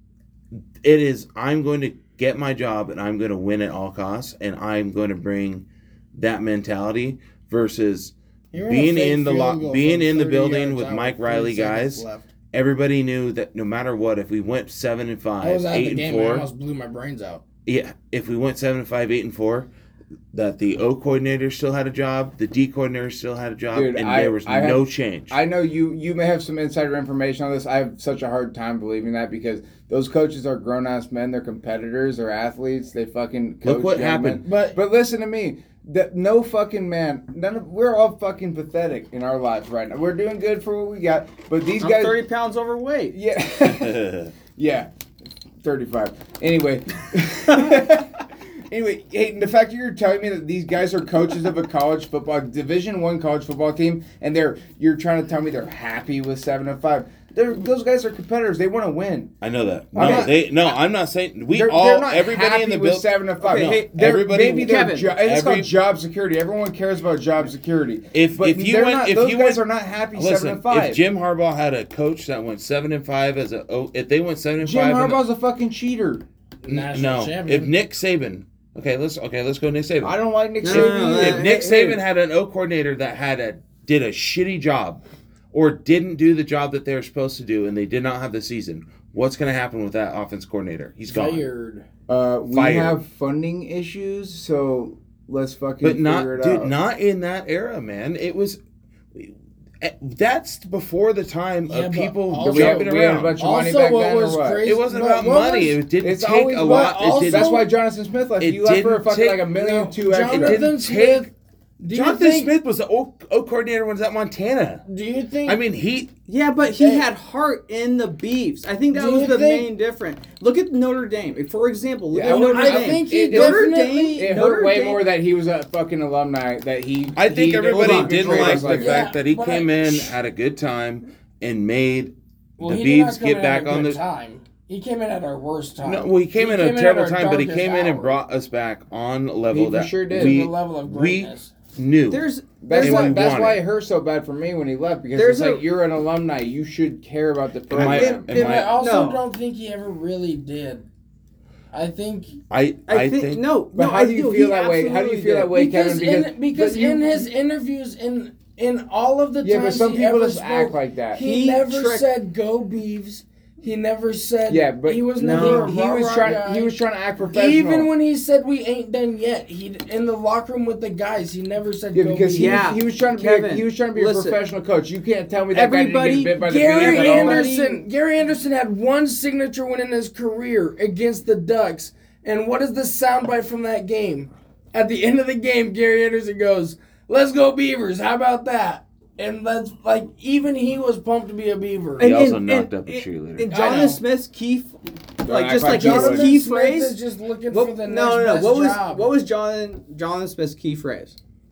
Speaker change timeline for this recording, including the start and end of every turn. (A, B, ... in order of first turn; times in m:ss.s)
0:00.8-0:16.5 A
0:08.5-0:12.3 B
0:15.4-0:17.4 B
0:17.6-0:19.7 A
0:20.3-0:25.4 A
0:23.7-0:42.2 C
0:33.6-0:34.4 A
0:34.4-0:34.8 B
0:41.8-0:43.2 D
0:43.1-0:44.9 C
0:43.7-0:44.3 A
0:45.6-0:59.3 C
0:59.4-1:05.7 A
0:59.9-1:00.4 C
1:00.0-1:00.3 D
1:01.5-1:11.0 C
1:03.4-1:05.1 D
1:08.1-1:15.2 A
1:14.6-1:16.2 C
1:16.6-1:17.7 B
1:16.7-1:25.0 A
1:20.0-1:22.0 C
1:20.6-1:22.0 D
1:25.5-1:31.4 A
1:31.1-1:31.8 B
1:32.1-1:36.7 C
1:32.5-1:33.0 A
1:35.8-1:38.6 A
1:39.1-1:43.4 A
1:41.7-1:45.8 B
1:42.4-1:44.7 C
1:44.6-1:47.6 A
1:46.0-1:50.6 C
1:46.6-1:47.7 B
1:48.4-1:49.5 A
1:49.5-1:52.5 B
1:50.3-1:51.3 A
1:51.9-1:54.8 A
1:54.8-1:55.6 B
1:55.4-1:56.1 A
1:56.3-2:05.0 D
1:56.7-1:57.1 B
1:58.9-1:59.7 B
2:02.1-2:09.1 C
2:02.2-2:04.3 B
2:07.2-2:14.0 A
2:07.6-2:08.6 D
2:08.3-2:10.1 B
2:12.6-2:18.2 B
2:15.8-2:22.2 A
2:19.5-2:20.5 C
2:20.1-2:21.5 B
2:22.1-2:23.3 D
2:22.6-2:28.2 C
2:22.8-2:23.6 A
2:25.1-2:25.6 D
2:27.7-2:28.8 A
2:27.7-2:29.2 D
2:28.3-2:30.9 B
2:31.7-2:32.4 B
2:32.5-2:33.4 A
2:32.9-2:35.5 D
2:33.7-2:37.3 C
2:35.5-2:46.8 B
2:39.4-2:41.2 C
2:41.2-2:42.1 D
2:44.5-2:47.9 C
2:45.2-2:46.3 D
2:47.3-2:52.7 B
2:51.9-2:57.5 C
2:52.3-2:54.4 D
2:55.5-2:57.8 D
2:56.4-3:12.2 B
3:12.0-3:17.0 D
3:12.0-3:13.5 A
3:13.5-3:14.0 B
3:15.2-3:16.3 C
3:15.6-3:19.1 B
3:17.5-3:21.2 D